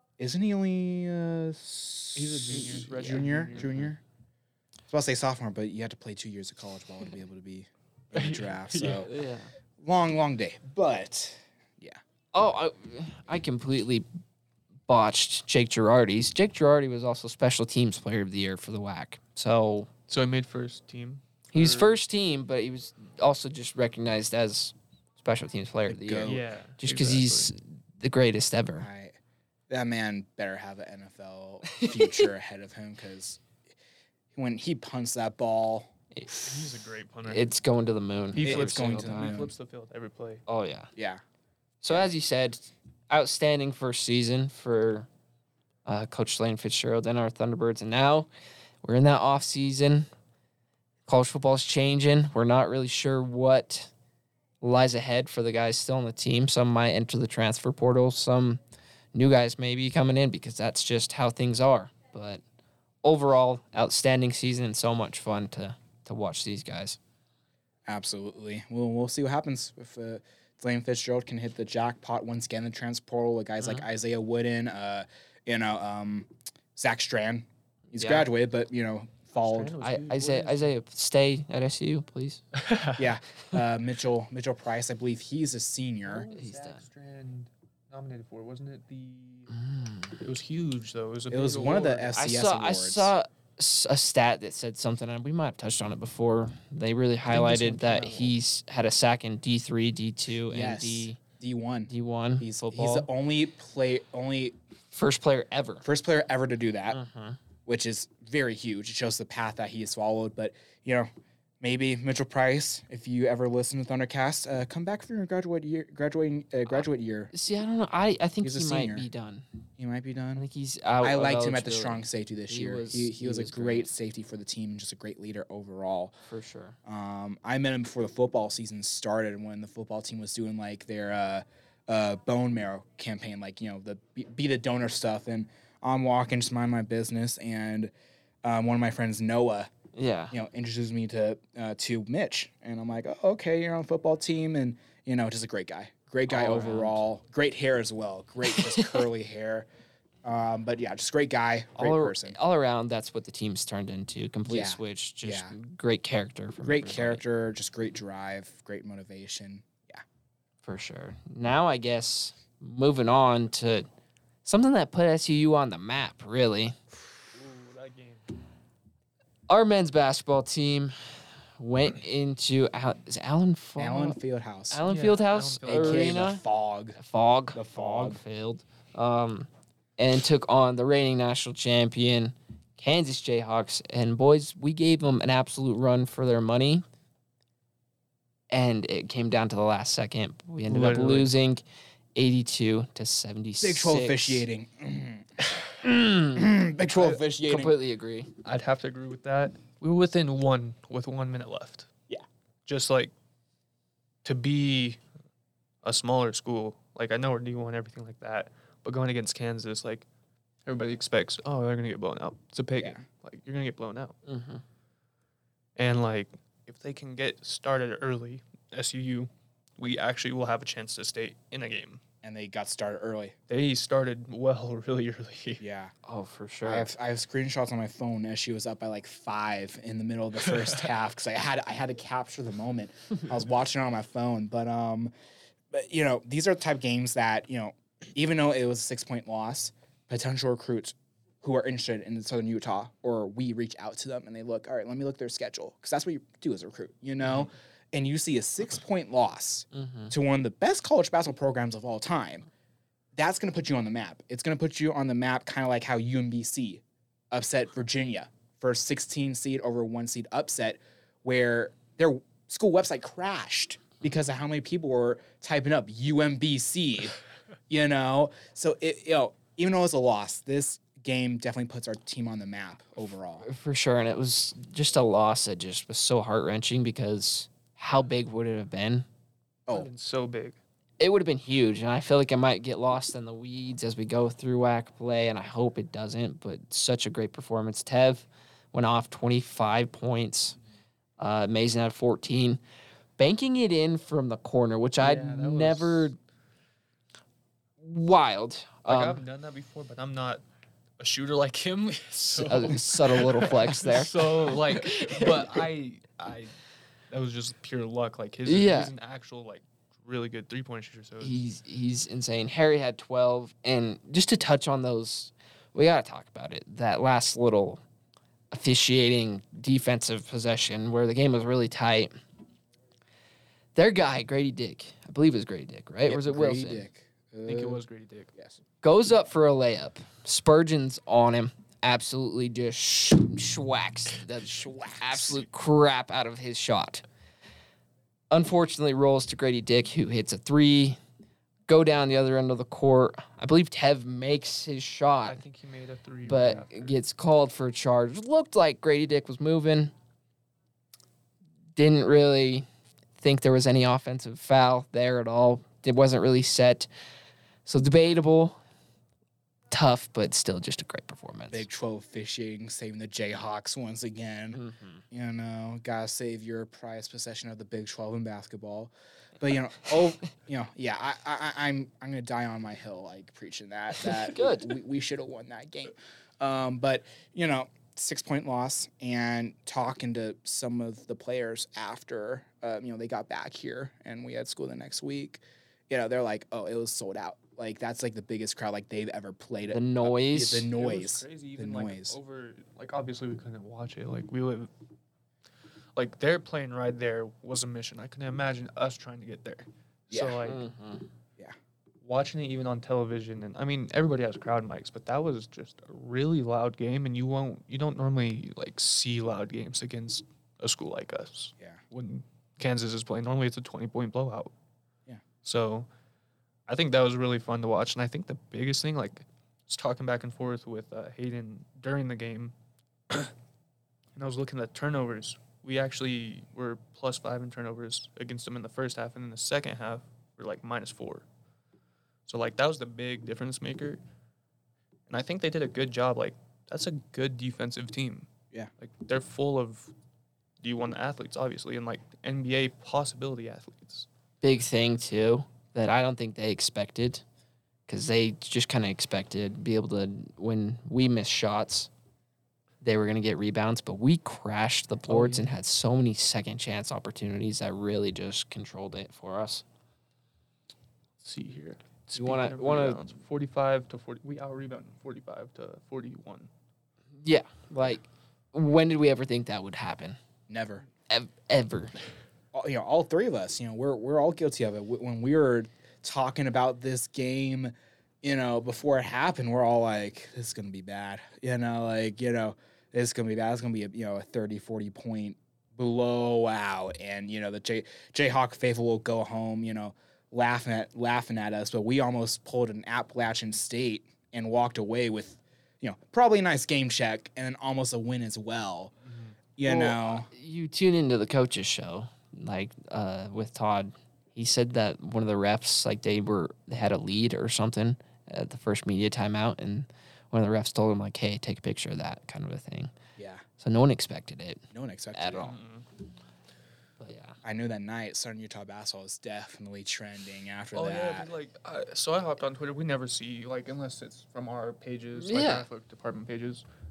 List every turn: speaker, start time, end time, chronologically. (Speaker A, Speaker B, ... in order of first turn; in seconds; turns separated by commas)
Speaker A: 0.2-4.0, Speaker B: 2.1-3.9, Speaker C: 2.6-2.9, Speaker A: 4.9-9.1, Speaker B: 8.1-9.1, Speaker C: 9.0-9.5, Speaker A: 9.8-12.0, Speaker C: 12.3-14.1, Speaker C: 14.9-19.9, Speaker B: 20.1-21.9, Speaker C: 21.5-28.9, Speaker A: 25.9-26.5, Speaker B: 26.2-27.5, Speaker A: 28.8-29.1, Speaker A: 29.7-33.4, Speaker C: 31.7-32.3, Speaker A: 34.3-35.9, Speaker C: 36.1-36.5, Speaker B: 36.3-37.5, Speaker C: 37.2-39.5, Speaker B: 38.3-40.4, Speaker A: 38.4-39.5, Speaker C: 40.5-40.9, Speaker A: 41.0-41.2, Speaker C: 41.8-45.1, Speaker C: 45.9-48.3, Speaker C: 48.8-50.1, Speaker C: 51.0-53.9, Speaker C: 54.6-58.6, Speaker C: 59.1-62.4, Speaker C: 63.0-67.0, Speaker A: 67.9-79.8, Speaker C: 73.6-73.8, Speaker C: 78.0-78.3, Speaker B: 79.4-80.7, Speaker C: 79.8-82.4, Speaker B: 82.5-83.0, Speaker A: 83.0-86.3, Speaker B: 86.0-89.5, Speaker C: 86.3-86.8, Speaker C: 89.5-90.2, Speaker B: 90.2-92.2, Speaker A: 91.3-93.1, Speaker C: 92.2-101.2, Speaker B: 97.3-98.3, Speaker A: 100.5-104.6, Speaker C: 101.9-103.1, Speaker C: 104.9-105.8, Speaker A: 105.8-107.0, Speaker C: 106.9-107.4, Speaker A: 107.7-111.1, Speaker A: 111.6-117.3, Speaker C: 117.3-119.5, Speaker A: 118.4-119.0, Speaker A: 119.8-120.4, Speaker C: 120.3-123.9, Speaker A: 121.0-126.1, Speaker C: 126.2-126.8, Speaker A: 126.8-137.9, Speaker A: 138.4-139.7, Speaker C: 139.9-140.3, Speaker A: 140.3-149.7, Speaker C: 146.3-147.0, Speaker C: 148.6-149.0, Speaker A: 150.2-152.3, Speaker C: 151.8-157.2, Speaker A: 154.5-155.5, Speaker A: 156.6-160.0, Speaker C: 160.6-163.8, Speaker C: 164.4-166.8, Speaker B: 167.3-168.3, Speaker C: 169.5-174.2, Speaker A: 173.8-174.8, Speaker C: 174.7-176.4, Speaker B: 174.8-176.2, Speaker A: 175.6-177.0, Speaker C: 176.9-186.8, Speaker A: 177.5-178.2, Speaker C: 188.5-191.6, Speaker B: 190.7-191.3, Speaker C: 192.1-194.4, Speaker A: 193.6-195.5, Speaker C: 195.8-196.5, Speaker A: 196.3-197.8, Speaker C: 197.4-198.3, Speaker B: 198.4-201.9, Speaker B: 202.7-203.1, Speaker B: 204.2-205.0, Speaker B: 205.8-210.1, Speaker B: 210.7-214.2, Speaker C: 214.2-214.6, Speaker B: 215.8-222.0, Speaker A: 222.2-223.3, Speaker B: 223.5-225.6, Speaker A: 225.6-225.9, Speaker C: 226.1-226.9, Speaker A: 226.6-235.1, Speaker B: 230.5-230.8, Speaker A: 235.7-252.5, Speaker C: 249.7-250.1, Speaker A: 253.1-267.2, Speaker A: 267.7-273.4, Speaker C: 273.4-279.1, Speaker B: 279.7-280.6, Speaker C: 281.0-290.6, Speaker C: 291.2-292.6, Speaker C: 293.2-296.2, Speaker B: 295.0-296.1, Speaker C: 297.8-299.2, Speaker B: 298.9-300.4, Speaker B: 301.0-306.5, Speaker C: 302.1-305.6, Speaker B: 307.1-311.4, Speaker C: 308.4-308.9, Speaker C: 311.2-317.8, Speaker C: 318.5-322.1, Speaker C: 323.7-326.9, Speaker A: 326.0-327.8, Speaker B: 327.4-328.3, Speaker C: 328.8-337.0, Speaker A: 334.5-335.4, Speaker C: 338.3-341.0, Speaker C: 341.7-345.4, Speaker B: 345.2-347.0, Speaker C: 346.2-349.9, Speaker C: 351.8-352.6, Speaker C: 353.2-356.9, Speaker C: 357.6-358.6, Speaker C: 359.7-361.6, Speaker A: 361.5-392.1, Speaker C: 364.5-365.0, Speaker C: 374.2-374.7, Speaker C: 389.7-390.7, Speaker B: 390.7-394.7, Speaker B: 395.9-400.6, Speaker A: 400.1-400.4, Speaker C: 400.4-401.1, Speaker B: 402.0-414.5, Speaker B: 415.4-415.9, Speaker B: 416.7-422.5, Speaker B: 424.1-431.2, Speaker B: 432.3-434.0, Speaker B: 435.1-439.9, Speaker B: 440.6-444.1, Speaker C: 444.4-447.2, Speaker C: 447.9-451.9, Speaker C: 452.8-459.6, Speaker B: 455.1-455.5, Speaker B: 461.2-466.5, Speaker C: 462.1-463.0, Speaker C: 467.2-470.2, Speaker A: 470.5-470.9, Speaker C: 471.1-471.9, Speaker A: 472.5-498.9, Speaker B: 499.1-499.3, Speaker A: 499.6-500.3, Speaker C: 499.6-512.9, Speaker A: 513.1-513.4, Speaker C: 513.6-515.5, Speaker A: 514.7-515.6, Speaker B: 515.4-515.9, Speaker C: 517.0-517.4, Speaker A: 517.4-521.3, Speaker B: 520.7-526.6, Speaker C: 525.1-525.6